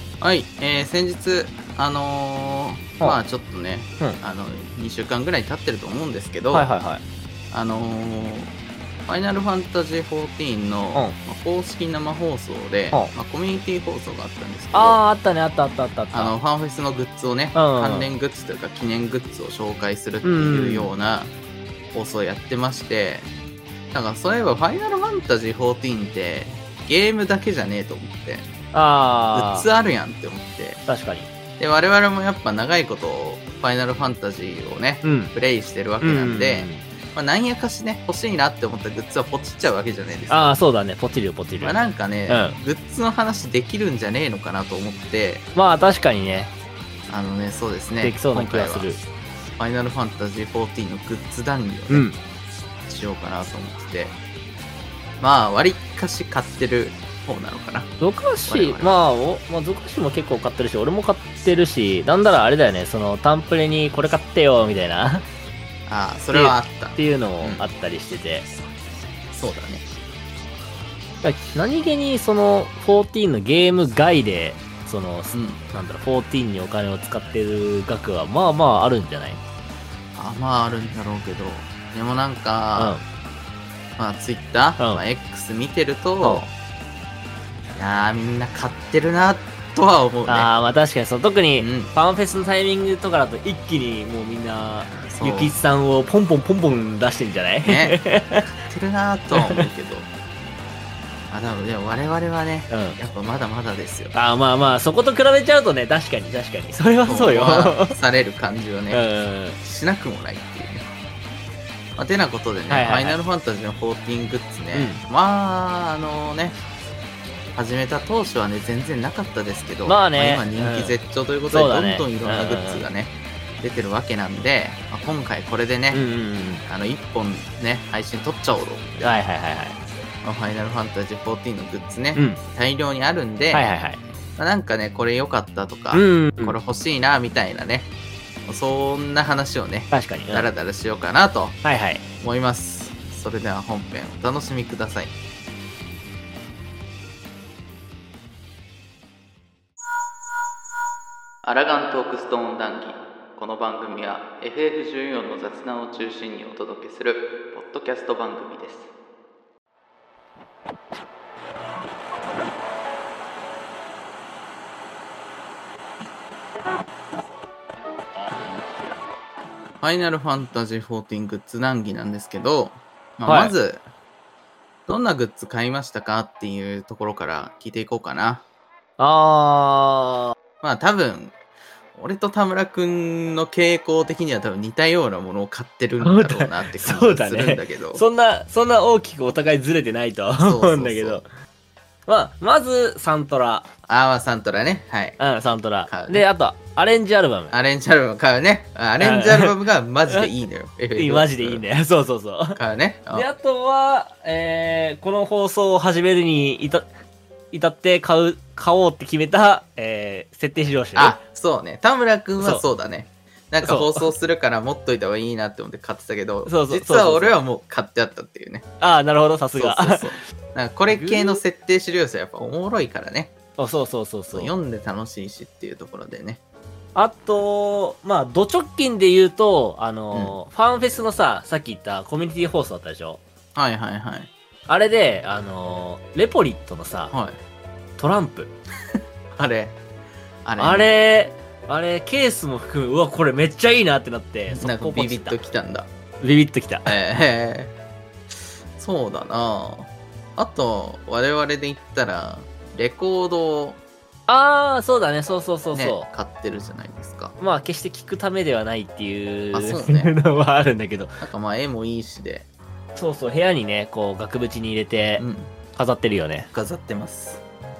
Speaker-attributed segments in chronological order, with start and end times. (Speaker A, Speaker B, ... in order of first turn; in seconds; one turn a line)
Speaker A: 0.2-6.7
Speaker B: 6.5-7.0
Speaker A: 7.5-8.5
Speaker A: 9.1-15.0
Speaker B: 14.7-16.3
Speaker A: 16.1-21.3
Speaker B: 17.5-18.1
Speaker B: 20.2-20.9
Speaker A: 21.9-23.3
Speaker A: 23.9-28.5
Speaker B: 28.7-29.7
Speaker A: 29.3-30.8
Speaker B: 30.9-31.3
Speaker A: 31.6-40.6
Speaker B: 35.0-35.3
Speaker B: 36.0-36.9
Speaker B: 40.3-42.6
Speaker A: 41.6-45.5
Speaker B: 45.5-46.5
Speaker A: 47.1-48.9
Speaker B: 48.0-49.0
Speaker A: 49.6-52.1
Speaker B: 51.9-52.2
Speaker A: 52.9-54.1
Speaker A: 55.2-57.9
Speaker B: 58.0-65.2
Speaker A: 58.5-59.0
Speaker A: 65.9-67.7
Speaker B: 66.3-68.5
Speaker A: 69.3-69.8
Speaker B: 71.2-79.4
Speaker A: 75.3-75.6
Speaker A: 80.1-83.0
Speaker B: 82.8-83.0
Speaker A: 84.0-86.5
Speaker A: 87.8-90.5
Speaker B: 90.3-98.5
Speaker A: 91.6-91.9
Speaker A: 94.9-95.5
Speaker A: 97.6-98.0
Speaker A: 98.6-100.1
Speaker B: 99.3-99.7
Speaker A: 101.3-104.1
Speaker B: 102.7-103.0
Speaker B: 104.1-108.0
Speaker A: 107.0-109.0
Speaker B: 108.9-109.6
Speaker A: 109.6-110.9
Speaker A: 112.0-116.6
Speaker B: 112.7-113.2
Speaker B: 114.7-115.0
Speaker A: 117.5-126.0
Speaker B: 119.8-122.8
Speaker B: 125.9-126.6
Speaker A: 126.7-129.2
Speaker B: 129.0-129.8
Speaker A: 130.2-133.8
Speaker B: 132.1-132.4
Speaker B: 133.5-134.0
Speaker A: 134.4-137.9
Speaker B: 135.9-136.6
Speaker A: 138.4-141.6
Speaker B: 139.9-140.5
Speaker B: 141.6-142.0
Speaker A: 142.2-145.1
Speaker A: 151.4-158.9
Speaker A: 169.8-173.8
Speaker B: 173.2-173.5
Speaker A: 174.9-178.4
Speaker B: 179.0-180.3
Speaker A: 180.6-181.3
Speaker A: 181.9-188.0
Speaker B: 186.0-191.2
Speaker A: 190.4-191.2
Speaker B: 192.1-193.7
Speaker A: 193.9-195.2
Speaker B: 195.2-197.6
Speaker A: 195.9-196.2
Speaker A: 197.5-201.6
Speaker B: 199.0-199.5
Speaker B: 200.9-202.6
Speaker A: 202.5-203.3
Speaker B: 203.1-206.9
Speaker B: 207.5-211.2
Speaker A: 210.9-218.7
Speaker B: 213.6-214.1
Speaker B: 216.4-217.4
Speaker B: 218.8-220.1
Speaker A: 219.5-223.3
Speaker B: 220.9-221.4
Speaker B: 223.6-224.5
Speaker A: 224.3-226.4
Speaker B: 226.9-233.2
Speaker A: 230.1-230.4
Speaker A: 233.5-234.3
Speaker B: 234.7-237.1
Speaker A: 237.1-237.4
Speaker B: 238.0-238.5
Speaker A: 239.3-239.8
Speaker A: 240.4-241.0
Speaker B: 240.6-245.4
Speaker A: 244.5-245.9
Speaker B: 246.2-246.9
Speaker A: 246.8-247.7
Speaker A: 248.8-253.8
Speaker B: 254.3-256.1
Speaker A: 255.7-257.3
Speaker B: 257.4-261.2
Speaker A: 259.5-260.1
Speaker A: 261.2-262.5
Speaker B: 262.9-266.5
Speaker A: 265.2-265.5
Speaker A: 266.5-267.4